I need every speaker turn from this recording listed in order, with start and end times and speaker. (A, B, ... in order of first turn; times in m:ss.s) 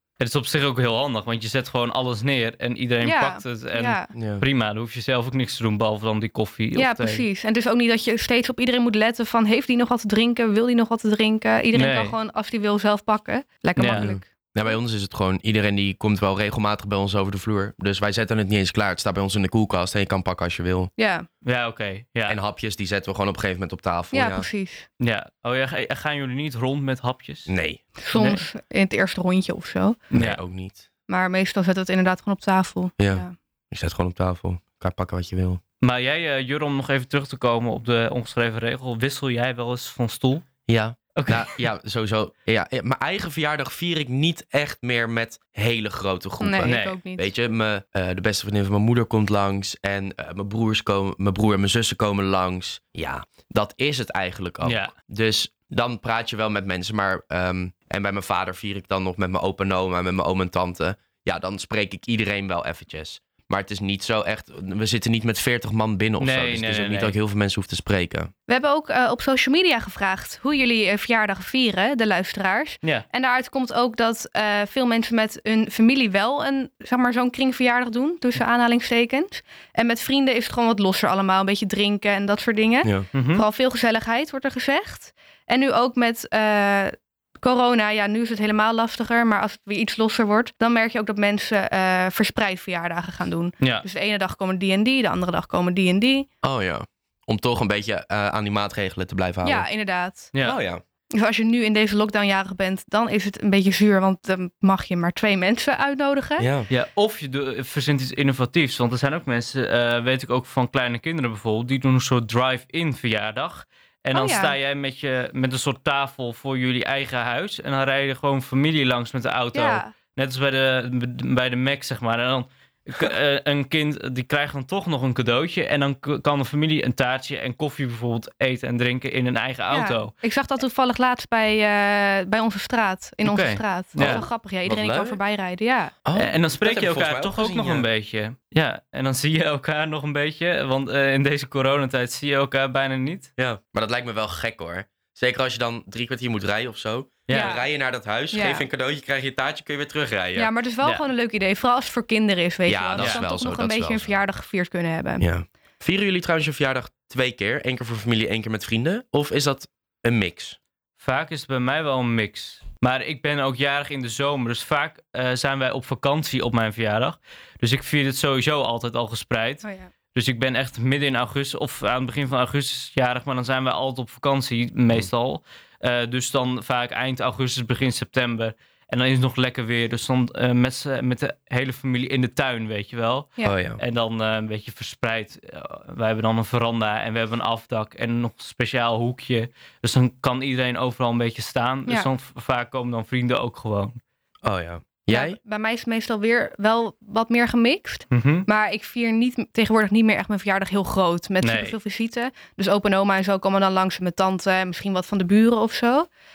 0:00.2-0:07.2 A
0:03.0-0:04.1 B
0:04.1-0:04.4 C
0:06.7-0:14.3 B
0:11.7-0:12.1 A
0:13.8-0:14.1 A
0:13.9-0:20.9 C
0:21.0-0:21.3 B
0:21.4-0:22.4 A
0:22.3-0:24.4 C
0:24.1-0:24.9 B
0:25.0-0:27.5 A
0:27.5-0:27.8 C
0:28.0-0:30.0 B
0:28.1-0:28.4 A
0:30.1-0:30.4 A
0:30.1-0:30.8 C
0:31.1-0:33.3 B
0:33.0-0:35.6 C
0:35.8-0:40.5 A
0:40.7-1:08.3 C
0:41.2-0:41.6 A
0:46.4-0:47.3 B
0:46.6-0:47.0 A
0:54.6-0:54.9 A
1:06.2-1:07.2 A
1:08.5-1:36.3 B
1:23.1-1:23.4 A
1:36.4-1:39.6 C
1:39.4-1:40.3 B
1:40.4-1:40.8 C
1:41.1-1:46.5 B
1:46.4-1:46.7 C
1:46.7-2:10.1 A
1:54.1-1:54.6 B
1:59.5-1:59.9 B
2:09.7-2:15.9 B
2:13.2-2:14.2 A
2:14.0-2:15.2 C
2:16.0-2:17.9 C
2:16.1-2:23.3 A
2:23.4-2:30.5 C
2:27.3-2:27.6 A
2:27.3-2:27.6 B
2:28.3-2:28.6 B
2:30.3-2:35.2 B
2:32.7-2:34.2 C
2:35.2-2:40.6 C
2:41.0-3:14.0 A
2:49.6-2:49.9 B
3:03.4-3:03.8 C
3:14.4-3:15.4 C
3:15.1-3:26.1 B
3:18.1-3:18.5 A
3:21.4-3:21.8 A